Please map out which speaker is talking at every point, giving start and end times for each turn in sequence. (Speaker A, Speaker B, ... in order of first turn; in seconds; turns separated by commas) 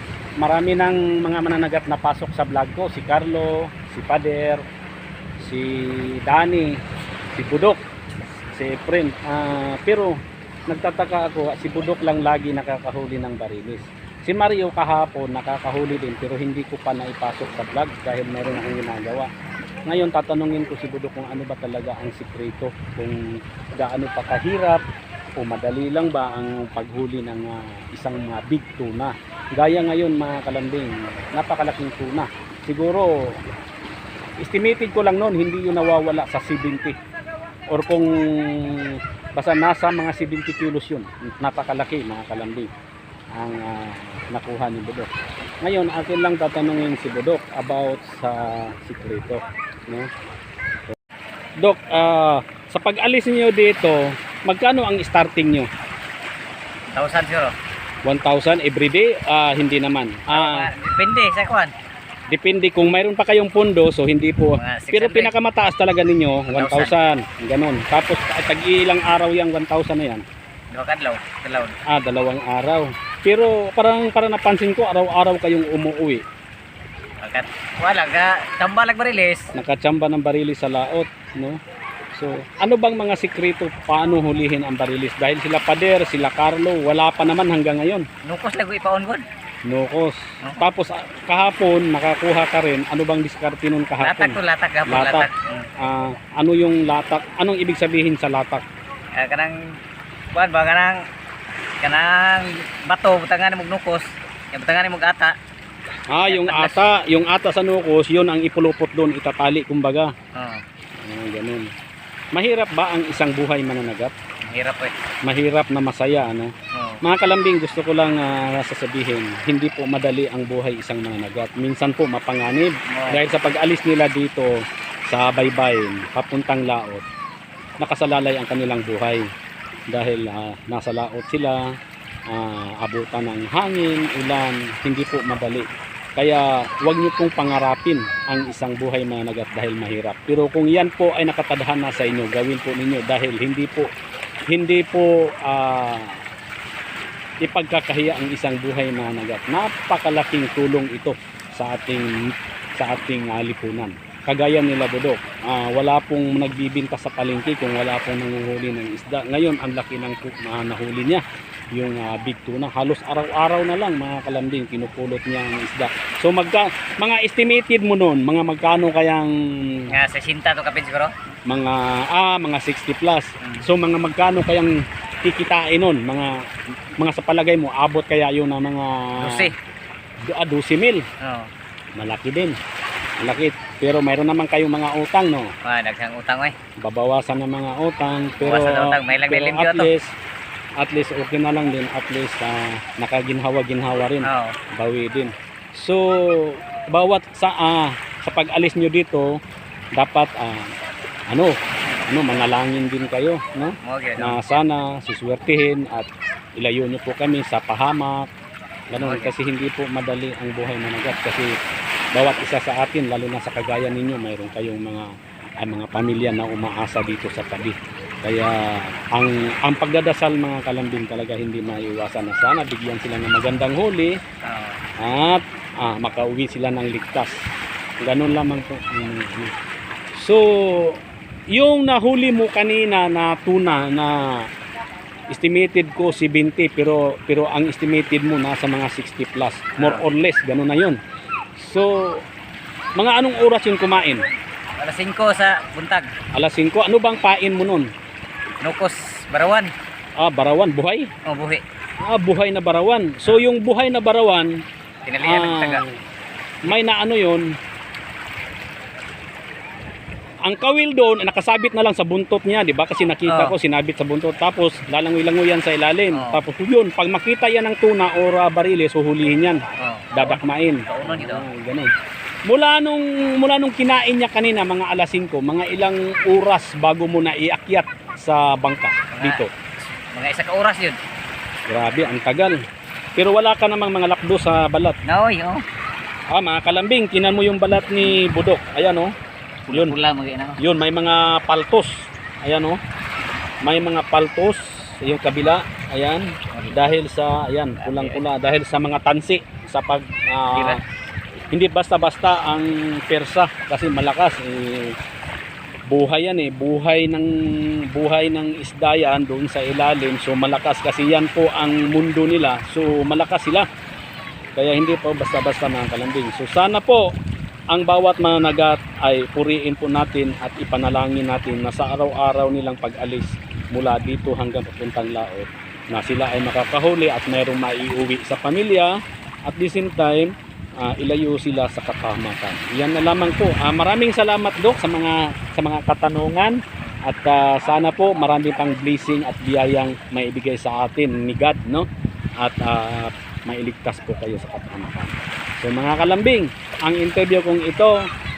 Speaker A: 0.4-4.6, Speaker A: 5.4-6.7, Speaker A: 7.3-7.8, Speaker A: 8.5-10.2, Speaker A: 10.7-19.3, Speaker A: 19.9-23.2, Speaker A: 23.8-24.8, Speaker A: 25.4-33.1, Speaker A: 34.4-37.0, Speaker A: 37.7-42.7, Speaker A: 43.4-45.1, Speaker A: 45.6-50.1, Speaker A: 51.6-55.7, Speaker B: 56.9-57.5, Speaker A: 58.0-60.7, Speaker B: 60.3-61.7, Speaker A: 62.3-70.2, Speaker B: 64.5-65.3, Speaker B: 66.5-67.0, Speaker B: 70.7-71.8, Speaker A: 71.9-76.2, Speaker B: 77.2-79.5, Speaker A: 79.5-81.6, Speaker A: 82.1-88.1, Speaker B: 88.2-89.2, Speaker A: 89.7-95.3, Speaker B: 94.0-95.7, Speaker A: 95.8-98.7, Speaker B: 99.2-99.5, Speaker B: 100.3-101.0, Speaker B: 101.8-105.3, Speaker A: 106.1-110.1, Speaker B: 106.3-106.8, Speaker B: 110.3-110.6, Speaker A: 111.0-111.7, Speaker A: 112.3-114.1, Speaker B: 114.5-114.9, Speaker A: 115.3-124.5, Speaker B: 116.7-117.0, Speaker B: 122.9-123.2, Speaker A: 125.1-127.0, Speaker A: 127.8-129.2, Speaker A: 129.9-131.6, Speaker A: 132.3-143.9, Speaker A: 144.5-146.2, Speaker A: 147.4-169.9, Speaker B: 169.9-171.1, Speaker A: 171.5-174.7, Speaker A: 175.2-176.3, Speaker A: 177.0-179.2, Speaker B: 179.2-179.5, Speaker A: 180.3-181.0, Speaker B: 181.2-181.5, Speaker A: 182.0-182.6, Speaker A: 183.2-185.5, Speaker B: 185.7-186.5, Speaker A: 186.8-190.1, Speaker B: 188.4-189.9, Speaker A: 190.8-199.4, Speaker B: 194.2-194.6, Speaker A: 200.0-200.7, Speaker A: 201.3-201.6, Speaker A: 202.1-208.3, Speaker B: 203.8-204.4, Speaker A: 208.9-211.5, Speaker B: 209.0-209.3, Speaker A: 212.1-215.1, Speaker A: 215.6-224.1, Speaker B: 224.4-224.8, Speaker A: 225.0-227.4, Speaker A: 228.0-229.5, Speaker A: 230.2-231.0, Speaker A: 231.5-234.2, Speaker A: 235.3-241.0, Speaker A: 241.6-242.2, Speaker A: 243.0-244.3, Speaker B: 244.8-246.1, Speaker A: 246.3-247.9, Speaker B: 248.6-249.7, Speaker A: 250.2-251.1, Speaker B: 251.3-251.6, Speaker A: 252.0-254.5, Speaker B: 255.1-255.8, Speaker A: 255.2-255.9, Speaker A: 256.6-257.4, Speaker A: 260.4-269.6, Speaker B: 263.3-263.5, Speaker B: 266.1-266.4, Speaker B: 269.8-271.4, Speaker A: 270.1-271.9, Speaker A: 272.5-279.5, Speaker B: 279.1-279.4, Speaker B: 280.1-281.0, Speaker A: 281.7-282.6, Speaker A: 283.2-285.0, Speaker B: 285.1-285.6, Speaker A: 286.3-289.1, Speaker B: 289.7-290.6, Speaker A: 289.7-290.0, Speaker A: 290.6-291.9, Speaker A: 292.4-292.8, Speaker A: 293.6-300.8, Speaker B: 297.8-298.2, Speaker B: 300.6-300.8, Speaker A: 301.5-304.9, Speaker A: 305.9-307.3, Speaker A: 307.9-313.6, Speaker A: 314.6-317.1, Speaker A: 317.7-328.9, Speaker A: 329.5-341.9, Speaker A: 342.4-347.9